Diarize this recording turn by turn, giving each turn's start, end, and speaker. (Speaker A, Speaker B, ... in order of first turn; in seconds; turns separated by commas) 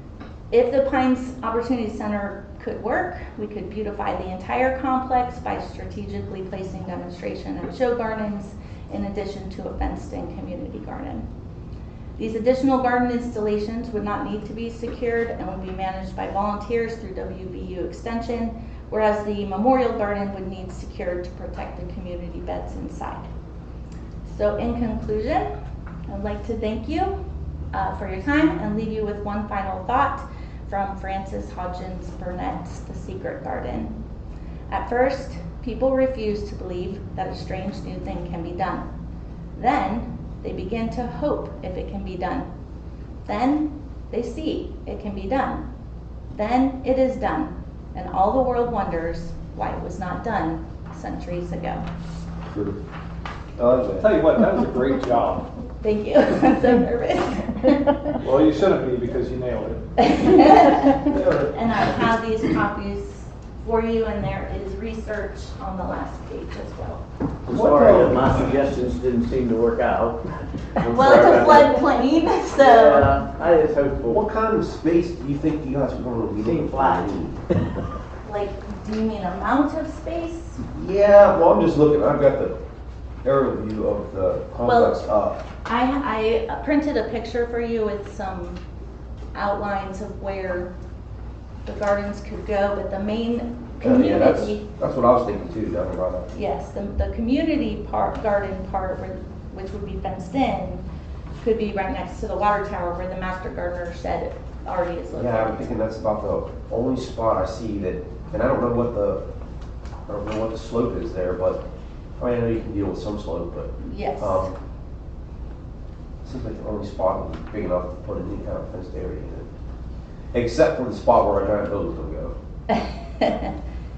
Speaker A: 0.5-11.2, Speaker A: 12.2-23.3, Speaker A: 24.2-25.5, Speaker A: 26.1-27.1, Speaker A: 27.7-33.9, Speaker A: 34.7-38.9, Speaker A: 39.5-42.5, Speaker A: 43.3-45.6, Speaker A: 46.3-51.8, Speaker B: 52.5-52.8, Speaker B: 53.6-54.1, Speaker C: 54.0-55.5, Speaker A: 55.8-58.1, Speaker C: 58.2-60.5, Speaker A: 60.0-67.0, Speaker B: 61.1-61.5, Speaker D: 67.5-71.7, Speaker C: 67.5-68.7, Speaker B: 70.8-71.7, Speaker A: 70.8-73.2, Speaker D: 72.5-74.2, Speaker B: 74.1-77.4, Speaker D: 76.4-77.7, Speaker A: 78.2-80.6, Speaker B: 80.7-82.5, Speaker B: 83.2-85.4, Speaker A: 84.6-85.0, Speaker A: 85.7-88.6, Speaker A: 89.3-90.7, Speaker A: 91.7-94.6, Speaker B: 93.8-96.3, Speaker A: 96.3-100.8, Speaker A: 101.4-105.7, Speaker B: 105.1-109.2, Speaker B: 110.1-111.6, Speaker B: 112.2-114.5, Speaker A: 113.8-114.5, Speaker B: 116.2-119.5, Speaker B: 120.3-122.3, Speaker A: 122.7-123.5